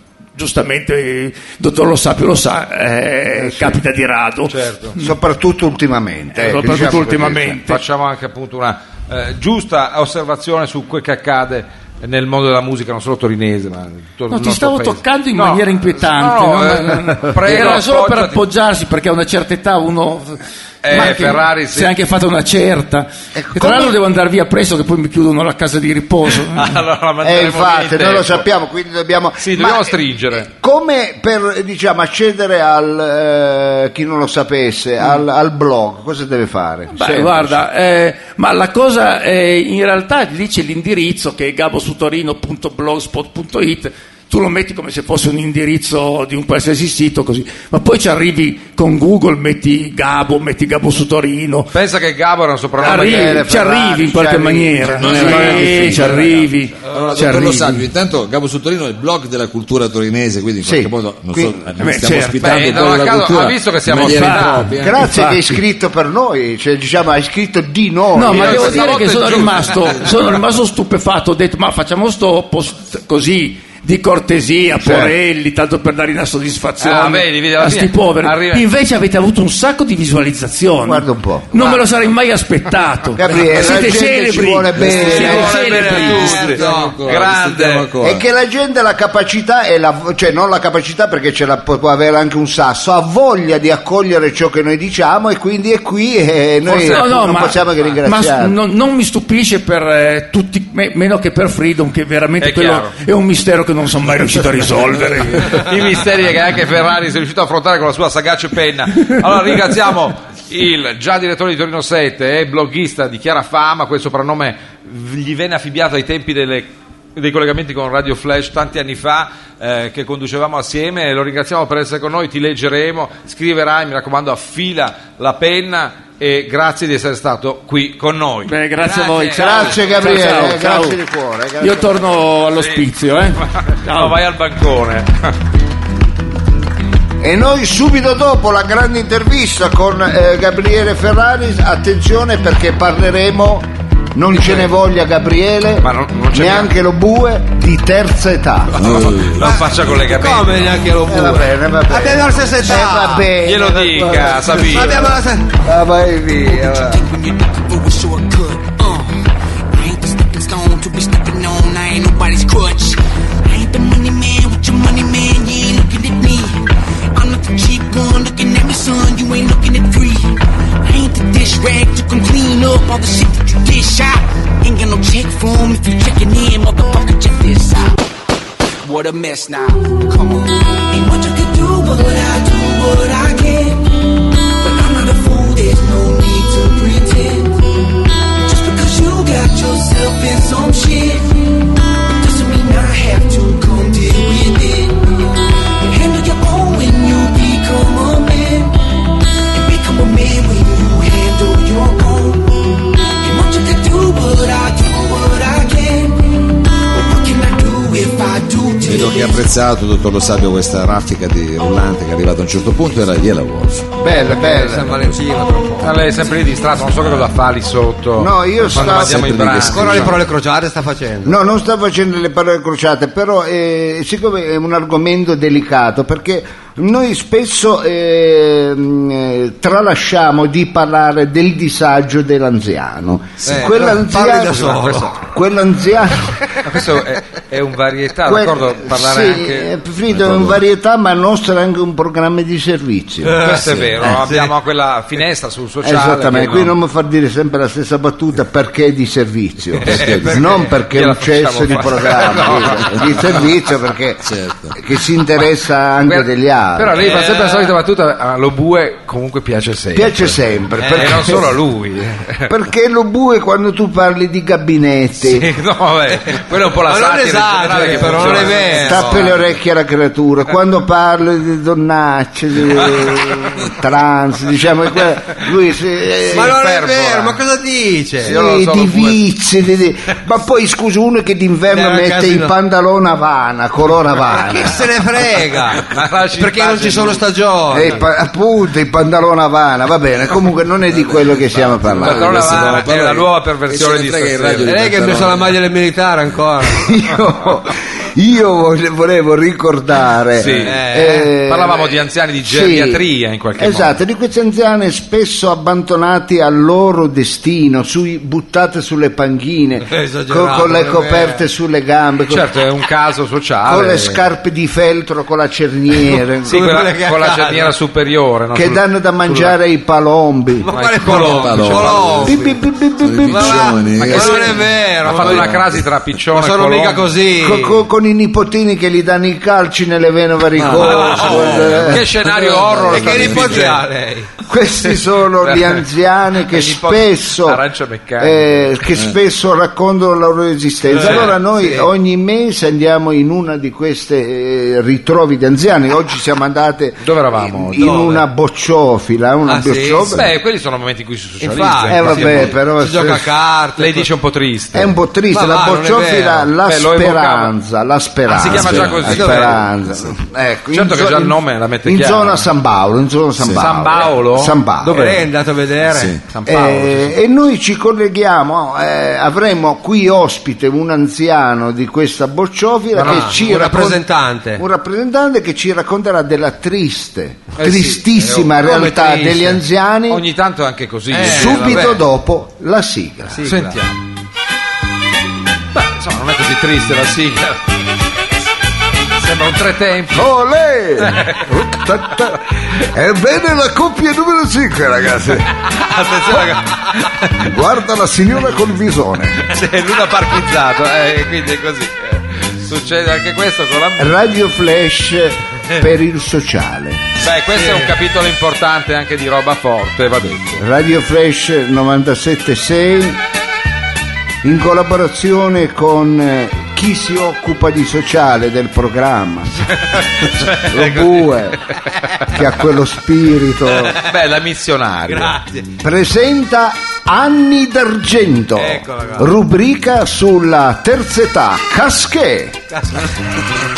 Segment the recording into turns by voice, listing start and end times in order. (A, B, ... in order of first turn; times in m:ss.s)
0:00.4-0:05.1 A
0:03.4-0:03.8 B
0:04.5-0:05.0 C
0:05.0-0:07.6 B
0:06.3-0:07.8 A
0:07.7-0:18.4 C
0:14.3-0:26.8 A
0:20.8-0:21.9 C
0:23.4-0:24.0 B
0:26.5-0:28.4 C
0:27.2-0:37.6 B
0:29.4-0:30.5 C
0:36.9-0:51.7 A
0:51.7-0:53.6 C
0:52.8-0:57.9 A
0:52.8-0:56.4 B
0:54.9-1:05.2 D
0:55.0-0:56.2 C
1:00.6-1:01.7 B
1:01.8-1:02.9 A
1:02.4-1:04.6 C
1:03.9-1:05.6 A
1:04.8-1:09.1 B
1:08.1-1:26.5 A
1:08.2-1:10.2 C
1:16.8-1:18.6 C
1:20.8-1:21.8 B
1:23.2-1:25.5 B
1:24.8-1:28.2 D
1:24.9-1:27.9 C
1:25.5-1:27.0 E
1:28.0-1:38.6 B
1:36.7-1:37.1 C
1:36.9-1:45.7 A
1:42.4-1:42.9 C
1:45.4-2:10.3 C
2:08.4-2:11.0 A
2:09.4-2:12.1 B
2:11.6-2:14.2 A
2:12.6-2:12.9 C
2:13.4-2:15.3 C
2:17.2-2:29.1 B
2:25.8-2:26.7 C
2:28.8-2:29.5 D
2:28.8-2:30.8 C
2:29.4-2:33.3 E
2:31.1-2:35.1 B
2:33.4-2:35.1 C
2:34.6-2:35.5 E
2:35.6-2:37.0 B
2:36.4-2:58.0 F
2:58.8-3:04.0 F
3:04.6-3:07.6 F
3:08.4-3:18.8 F
3:19.5-3:29.5 F
3:28.8-3:33.9 D
3:34.0-3:35.0 B
3:34.1-3:36.1 E
3:35.8-3:40.2 C
3:38.2-3:39.5 B
3:38.6-3:40.2 D
3:39.7-3:41.4 E
3:41.2-3:56.4 B
3:53.4-3:55.2 E
3:56.6-3:59.7 C
3:58.2-4:03.4 B
4:00.1-4:00.6 D
4:03.2-4:04.5 E
4:03.4-4:06.8 C
4:05.8-4:17.1 B
4:09.8-4:13.4 C
4:09.9-4:10.3 D
4:14.2-4:14.8 D
4:16.0-4:22.5 C
4:17.0-4:17.7 E
4:19.9-4:21.6 B
4:20.8-4:21.3 E
4:22.5-4:25.5 B
4:25.2-4:29.5 C
4:26.4-4:29.3 E
4:28.3-4:36.6 B
4:36.3-4:37.4 C
4:36.3-4:38.3 E
4:38.2-4:39.2 C
4:38.2-4:44.9 B
4:41.7-4:42.5 E
4:44.3-4:45.8 E
4:45.8-4:47.2 C
4:46.4-4:48.0 E
4:47.7-4:52.8 B
4:50.9-4:55.6 D
4:52.0-4:54.8 C
4:54.6-4:56.9 E
4:56.7-5:03.0 B
5:00.4-5:00.8 C
5:00.4-5:01.3 E
5:01.5-5:04.0 C
5:03.6-5:12.5 B
5:09.8-5:11.4 E
5:12.3-5:14.2 C
5:13.6-5:16.6 B
5:16.4-5:17.7 E
5:16.4-5:19.6 C
5:18.5-5:20.7 B
5:20.6-5:22.6 E
5:20.7-5:22.1 C
5:21.0-5:22.4 D
5:22.2-5:24.2 B
5:23.0-5:25.8 D
5:23.3-5:25.6 E
5:24.0-5:27.1 C
5:26.3-5:27.8 E
5:27.4-5:33.4 B
5:30.6-5:32.0 D
5:30.8-5:33.8 C
5:30.8-5:31.8 E
5:32.8-5:33.6 D
5:32.9-5:34.3 E
5:34.5-5:37.6 B
5:34.9-5:35.8 C
5:36.5-5:38.7 C
5:38.2-5:50.3 B
5:40.9-5:41.9 E
5:41.0-5:41.3 C
5:47.0-5:48.1 C
5:47.8-5:48.2 E
5:49.5-5:50.2 E
5:50.0-5:52.6 C
5:51.4-5:54.1 E
5:51.9-5:53.3 B
5:53.8-5:55.0 C
5:54.7-6:05.0 B
5:55.3-5:56.5 E
5:56.6-5:57.5 C
5:58.3-5:59.6 C
5:58.4-5:59.3 D
5:59.1-5:59.5 E
6:00.7-6:02.5 C
6:03.4-6:03.6 D
6:03.6-6:05.3 C
6:04.9-6:06.2 E
6:05.9-6:06.2 D
6:06.3-6:07.1 C
6:06.5-6:14.0 B
6:13.0-6:13.5 C
6:13.0-6:14.6 E
6:14.6-6:20.2 B
6:17.6-6:18.6 C
6:18.6-6:19.6 E
6:20.1-6:22.0 C
6:21.1-6:22.0 E
6:21.2-6:23.5 B
6:23.3-6:23.8 E
6:23.4-6:24.0 C
6:25.7-6:27.6 C
6:29.2-6:30.3 C
6:30.1-6:35.5 B
6:31.0-6:31.7 C
6:35.6-6:37.5 C
6:37.4-6:39.4 B
6:39.4-6:44.2 C
6:44.0-6:47.0 B
6:47.2-6:50.6 C
6:47.6-6:47.9 E
6:50.6-6:53.2 B
6:54.4-6:59.6 B
6:59.8-7:02.3 C
7:00.4-7:01.6 B
7:02.3-7:04.0 B
7:04.0-7:05.4 C
7:05.1-7:05.7 E
7:05.8-7:12.6 B
7:08.6-7:09.3 E
7:12.7-7:13.1 E